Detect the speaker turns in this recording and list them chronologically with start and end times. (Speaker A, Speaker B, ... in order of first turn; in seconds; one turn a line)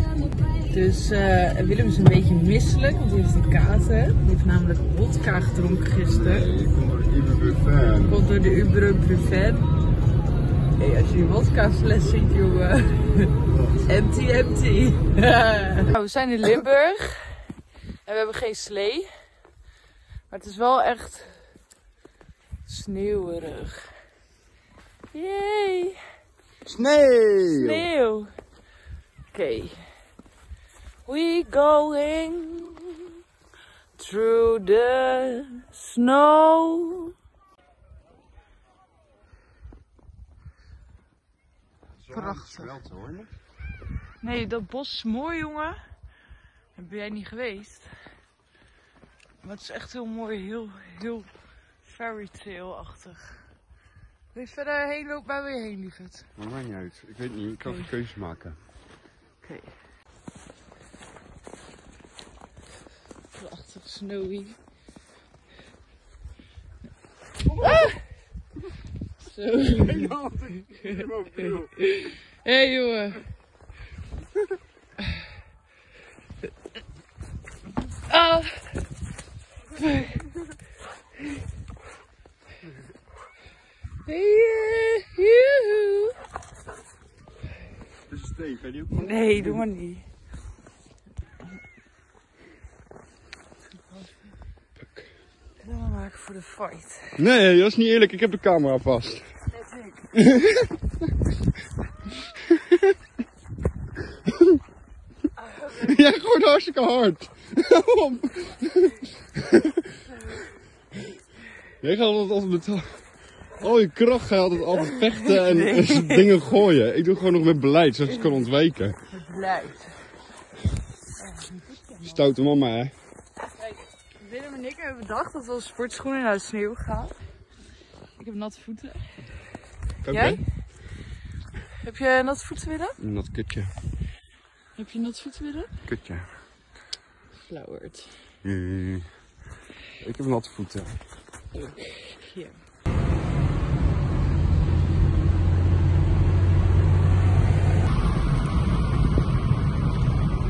Speaker A: 0.7-6.5
Speaker B: 6.0-8.2
Speaker A: 8.1-9.7
Speaker A: 10.8-13.3
Speaker B: 13.5-13.8
Speaker A: 13.9-19.2
Speaker A: 20.3-21.5
Speaker A: 22.7-23.9
Speaker A: 25.1-26.0
Speaker B: 26.6-27.9
Speaker A: 27.5-28.3
Speaker A: 29.3-29.9
Speaker A: 31.0-33.1
Speaker A: 34.0-37.1
Speaker B: 42.0-43.3
Speaker A: 42.1-42.8
Speaker A: 44.2-45.8
Speaker A: 46.8-47.9
Speaker A: 49.4-51.3
Speaker A: 51.8-53.5
Speaker A: 54.3-56.3
Speaker B: 56.4-58.6
Speaker A: 59.4-59.7
Speaker A: 63.4-64.6
Speaker A: 67.6-68.0
Speaker A: 69.2-70.2
Speaker B: 69.7-71.8
Speaker A: 70.7-73.2
Speaker A: 78.1-78.8
Speaker A: 79.7-80.2
Speaker A: 84.0-86.2
Speaker B: 88.1-89.6
Speaker A: 88.9-90.0
Speaker A: 95.6-97.2
Speaker B: 97.2-99.3
Speaker A: 99.5-100.1
Speaker B: 100.1-100.8
Speaker B: 102.4-102.9
Speaker B: 104.2-104.6
Speaker A: 105.4-106.0
Speaker B: 105.7-109.9
Speaker B: 111.8-119.0
Speaker A: 114.8-116.3
Speaker A: 118.1-118.4
Speaker A: 119.1-120.0
Speaker A: 121.2-122.2
Speaker B: 122.0-122.9
Speaker A: 123.7-127.1
Speaker A: 128.2-129.2
Speaker B: 130.0-130.4
Speaker A: 130.1-130.4
Speaker A: 131.7-133.0
Speaker B: 133.0-133.7
Speaker A: 134.8-135.7
Speaker B: 135.8-136.3
Speaker A: 137.5-138.2
Speaker B: 138.4-139.1
Speaker B: 140.0-141.0
Speaker A: 141.5-142.6